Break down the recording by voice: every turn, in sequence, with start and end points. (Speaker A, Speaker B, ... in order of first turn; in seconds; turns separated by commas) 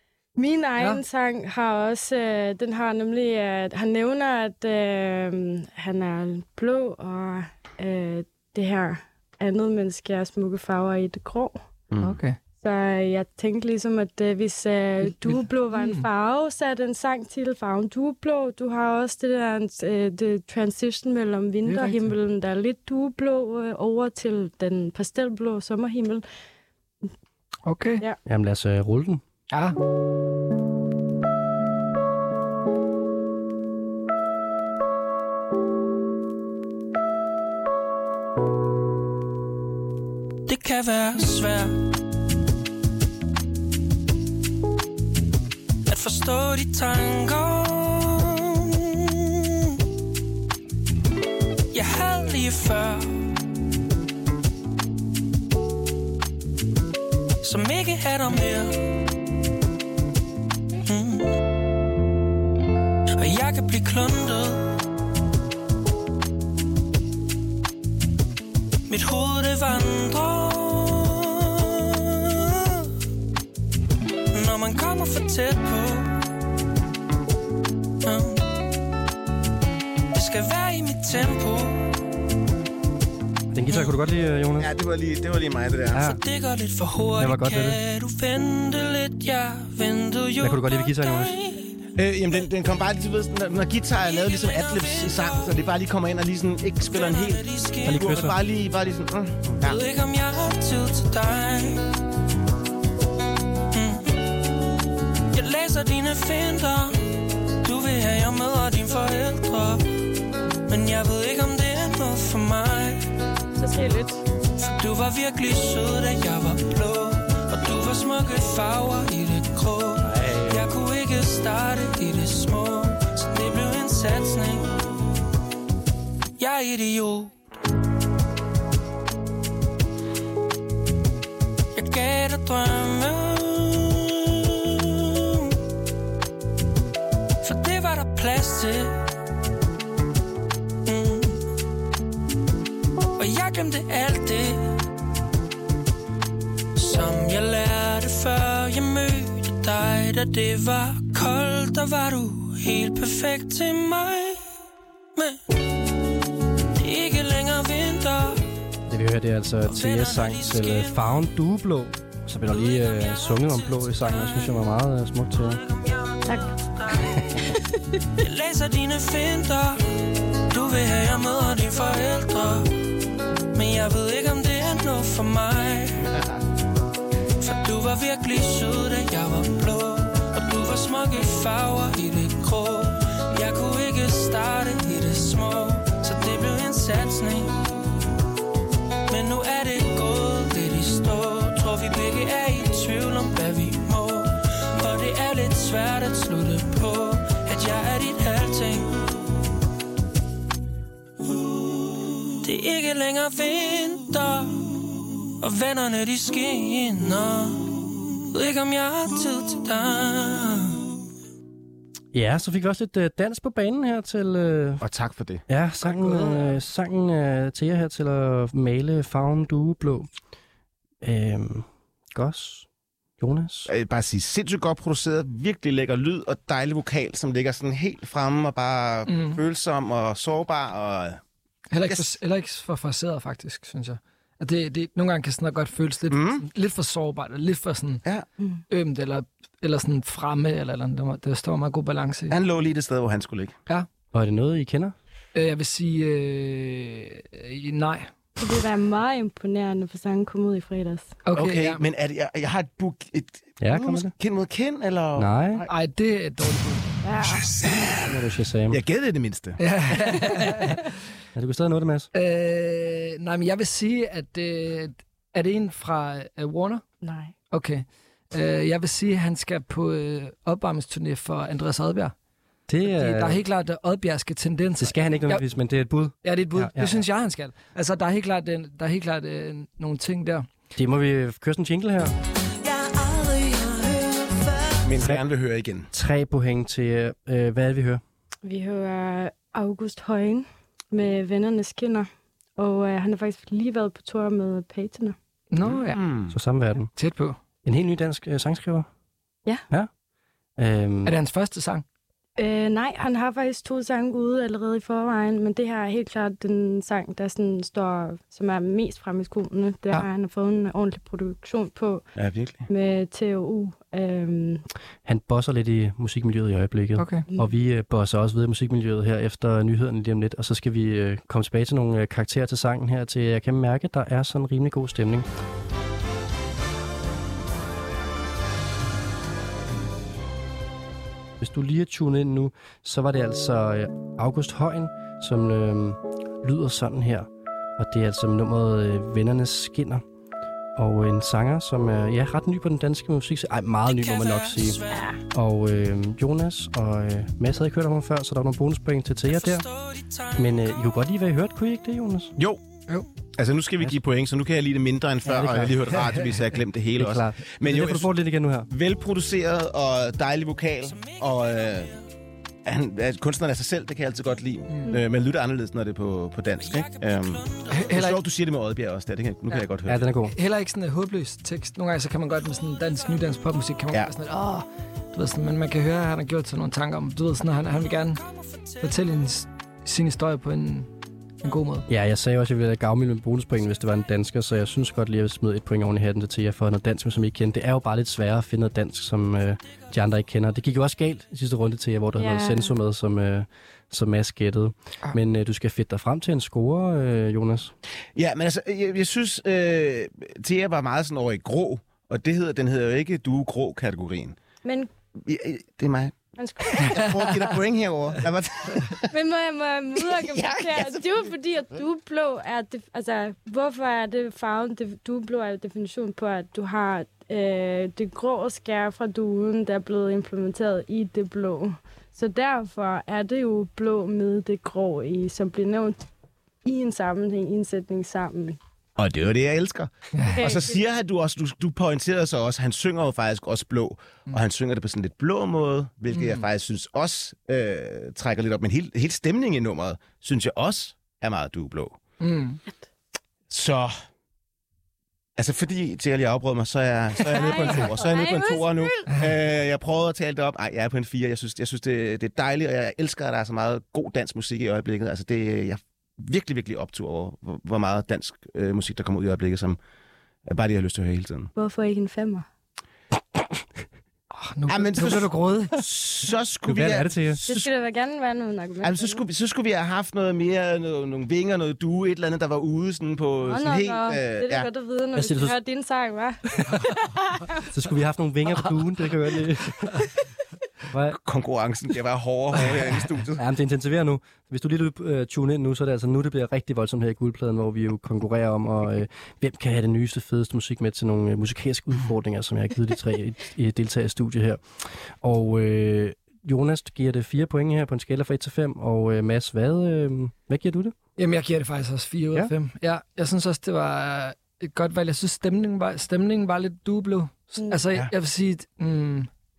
Speaker A: 0.3-11.6, Speaker B: 11.9-12.2, Speaker C: 12.0-12.4, Speaker A: 12.6-26.2, Speaker C: 15.2-16.0, Speaker C: 21.6-22.1, Speaker C: 27.6-28.0, Speaker D: 28.2-29.2, Speaker C: 29.5-29.8, Speaker E: 40.5-41.8, Speaker E: 45.9-49.5, Speaker E: 51.7-53.3, Speaker E: 57.4-59.0, Speaker E: 60.9-61.4, Speaker E: 63.1-64.8, Speaker E: 68.9-72.9, Speaker E: 74.3-76.2, Speaker E: 78.0-78.5, Speaker E: 80.1-81.9, Speaker D: 83.5-84.7, Speaker B: 84.6-86.1, Speaker D: 85.9-86.2, Speaker E: 86.0-91.7, Speaker D: 87.2-87.8, Speaker D: 90.4-91.3, Speaker B: 92.0-99.8, Speaker E: 94.0-95.5, Speaker E: 96.9-98.1, Speaker D: 97.8-98.4, Speaker E: 99.6-101.8, Speaker E: 103.7-104.3, Speaker E: 105.3-109.9, Speaker E: 110.7-113.1, Speaker A: 113.5-114.2, Speaker E: 114.6-124.9, Speaker D: 120.0-120.7, Speaker E: 126.4-127.3, Speaker E: 131.7-135.5, Speaker E: 137.4-139.0, Speaker E: 140.8-141.4, Speaker E: 143.2-144.8, Speaker E: 146.7-154.4, Speaker E: 155.1-155.4, Speaker E: 156.8-158.4, Speaker D: 158.9-165.6, Speaker E: 159.6-161.1, Speaker E: 162.5-164.6, Speaker E: 165.4-167.3, Speaker A: 166.2-166.5, Speaker E: 168.2-172.7, Speaker E: 173.5-176.0, Speaker E: 177.4-187.7, Speaker E: 189.1-199.0, Speaker E: 201.9-210.8, Speaker D: 212.1-214.8, Speaker B: 214.8-215.4, Speaker D: 215.5-220.1, Speaker C: 215.8-216.6, Speaker D: 221.0-222.7, Speaker D: 223.2-223.7, Speaker B: 223.7-231.2, Speaker C: 229.1-229.4, Speaker C: 231.7-238.0, Speaker B: 236.1-236.4, Speaker C: 238.7-242.3, Speaker B: 242.3-243.5, Speaker D: 244.1-244.9, Speaker C: 245.3-248.1, Speaker A: 248.4-251.1, Speaker C: 251.2-251.8, Speaker B: 251.3-255.7, Speaker D: 253.6-254.1, Speaker D: 255.1-255.7, Speaker C: 255.7-256.9, Speaker A: 257.0-257.5, Speaker D: 257.9-258.8, Speaker B: 258.7-259.6, Speaker C: 259.6-260.8, Speaker D: 261.3-262.1, Speaker C: 262.1-266.8, Speaker A: 267.0-267.3, Speaker C: 267.5-272.1, Speaker D: 272.7-273.4, Speaker C: 272.8-275.4, Speaker D: 274.8-277.0, Speaker C: 276.2-280.5, Speaker D: 280.8-282.1, Speaker B: 284.8-285.9, Speaker D: 285.9-288.0, Speaker A: 288.4-295.1, Speaker C: 295.5-296.0, Speaker B: 295.6-296.3, Speaker D: 296.3-296.9, Speaker C: 296.9-297.4, Speaker D: 297.6-298.9, Speaker D: 300.6-301.1, Speaker C: 301.1-301.8, Speaker A: 302.4-312.0, Speaker B: 312.1-312.6, Speaker A: 312.7-314.6, Speaker D: 315.1-325.2, Speaker C: 317.0-317.2, Speaker D: 331.4-340.0, Speaker D: 340.8-349.6, Speaker E: 343.9-345.1, Speaker E: 349.3-350.8, Speaker D: 350.4-352.3, Speaker B: 353.4-358.1, Speaker D: 355.2-356.0, Speaker D: 357.0-358.7, Speaker B: 358.7-361.9, Speaker E: 360.9-361.9, Speaker B: 362.6-370.1, Speaker E: 366.6-367.7, Speaker C: 367.7-368.2, Speaker D: 369.9-370.3, Speaker C: 370.3-378.2, Speaker E: 378.3-378.8, Speaker C: 378.8-380.9, Speaker C: 381.4-381.9, Speaker D: 381.9-397.7, Speaker A: 392.2-392.7, Speaker B: 398.1-404.4, Speaker A: 404.6-404.9, Speaker B: 405.2-406.1, Speaker A: 406.4-407.1, Speaker B: 406.7-409.1, Speaker A: 409.1-426.0, Speaker B: 410.2-411.2, Speaker A: 426.6-428.6, Speaker B: 429.0-442.0, Speaker A: 430.3-430.8, Speaker C: 436.1-436.4, Speaker C: 442.2-442.6, Speaker B: 443.5-443.9, Speaker B: 445.4-459.8, Speaker A: 447.3-449.1, Speaker B: 460.5-461.5, Speaker A: 461.6-462.4, Speaker C: 464.3-465.8, Speaker B: 464.7-467.7, Speaker D: 466.6-467.4, Speaker A: 467.5-469.2, Speaker B: 468.8-474.7, Speaker A: 473.4-477.5, Speaker D: 475.1-475.6, Speaker D: 476.5-476.8, Speaker D: 477.7-480.1, Speaker D: 480.9-481.2, Speaker B: 481.1-483.4, Speaker D: 483.4-500.9, Speaker C: 501.2-509.3